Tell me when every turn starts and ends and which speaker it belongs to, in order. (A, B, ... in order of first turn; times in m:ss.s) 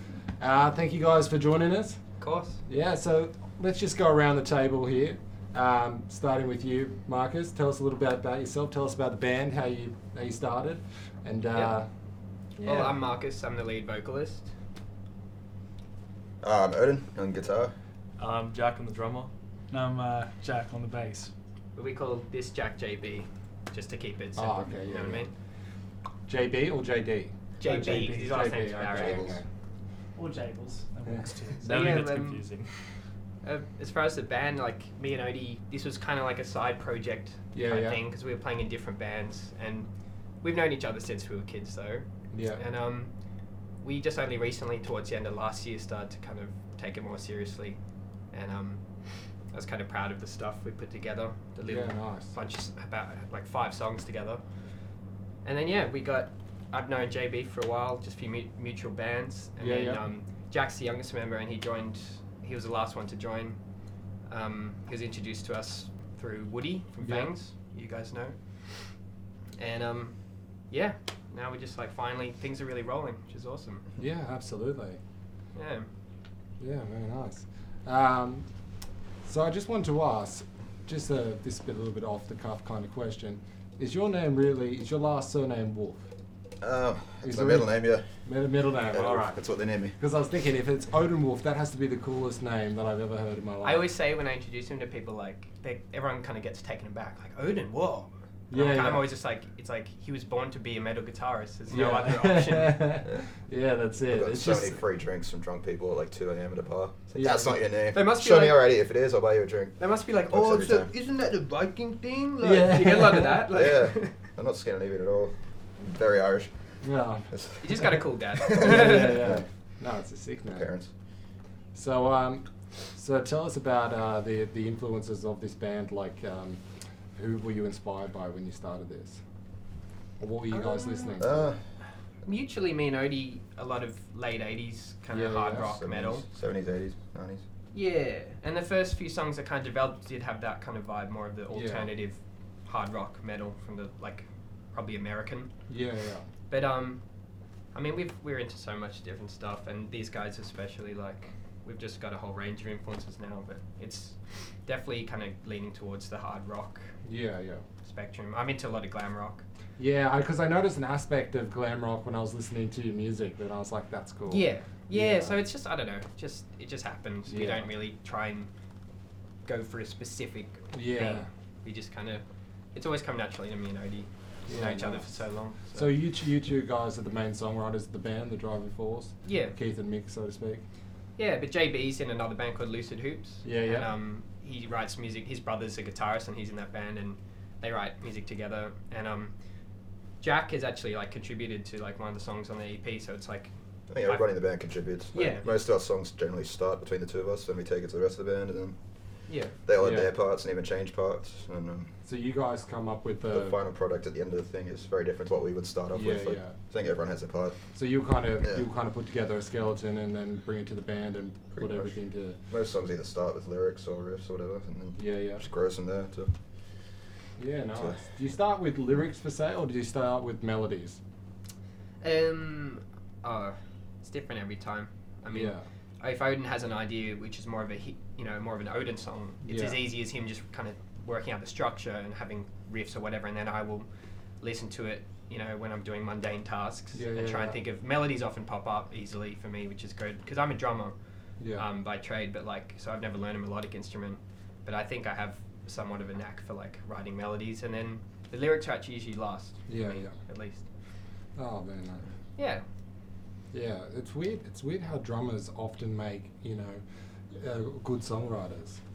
0:00.4-0:02.0 A
0:02.2-0:02.6 B
0:02.6-0:11.9 A
0:12.6-0:14.5 B
0:16.4-0:17.7 C
0:18.2-0:19.3 D
0:19.7-0:21.3 E
0:21.7-0:25.3 B
0:24.4-0:25.3 A
0:26.3-0:29.4 A
0:27.6-0:29.4 B
0:27.6-0:28.8 E
0:28.9-0:29.3 C
0:30.2-0:32.0 E
0:31.6-0:32.7 D
0:31.6-0:32.4 B
0:33.4-0:43.1 B
0:37.5-0:38.0 A
0:42.3-0:42.6 A
0:43.8-0:47.8 B
0:48.3-0:54.4 B
0:51.7-0:52.3 A
0:55.4-1:03.6 B
0:59.6-1:00.0 A
1:04.3-1:09.0 B
1:07.0-1:07.3 A
1:09.6-1:13.8 B
1:14.0-1:15.0 A
1:15.5-1:15.9 B
1:16.6-1:18.5 A
1:19.2-1:26.1 A
1:26.6-1:28.1 C
1:27.2-1:29.4 A
1:28.9-1:30.0 C
1:29.9-1:33.9 A
1:33.6-1:43.0 B
1:38.5-1:39.1 A
1:41.7-1:44.8 A
1:44.1-1:50.9 C
1:47.1-1:47.6 A
1:47.9-1:48.6 B
1:49.8-1:54.2 B
1:52.4-1:53.4 A
1:53.5-1:56.8 C
1:56.8-1:57.3 A
1:57.3-1:59.4 C
1:57.6-1:59.2 B
1:58.5-2:00.7 A
2:00.5-2:00.9 C
2:01.7-2:06.6 A
2:07.1-2:09.2 A
2:10.2-2:11.5 A
2:10.5-2:11.2 B
2:11.2-2:11.6 C
2:12.2-2:16.2 B
2:15.1-2:15.7 A
2:15.5-2:17.4 C
2:17.7-2:25.5 B
2:21.5-2:21.9 A
2:25.7-2:26.2 A
2:26.5-2:27.0 B
2:27.7-2:37.0 B
2:37.0-2:37.6 A
2:37.8-2:39.4 B
2:39.8-2:45.4 A
2:44.3-2:48.5 B
2:47.3-2:47.7 A
2:49.4-2:56.0 B
2:50.7-2:51.3 A
2:54.5-2:55.1 A
2:55.7-3:00.6 A
2:59.2-2:59.5 B
3:01.2-3:09.3 B
3:03.4-3:03.9 A
3:10.2-3:13.5 B
3:13.9-3:21.9 C
3:15.1-3:15.5 B
3:19.3-3:19.5 B
3:19.8-3:20.1 A
3:22.0-3:23.6 A
3:23.3-3:27.6 C
3:25.9-3:26.6 A
3:27.7-3:32.4 A
3:31.5-3:31.9 C
3:32.5-3:36.3 C
3:35.0-3:35.4 A
3:37.4-3:41.0 A
3:37.7-3:38.0 C
3:42.0-3:53.9 B
3:45.3-3:45.6 A
3:49.4-3:49.8 A
3:54.4-4:00.9 B
3:56.9-3:57.6 A
4:01.4-4:01.6 A
4:01.5-4:10.6 B
4:09.7-4:10.1 A
4:11.4-4:12.1 A
4:12.4-4:12.6 B
4:13.5-4:18.8 A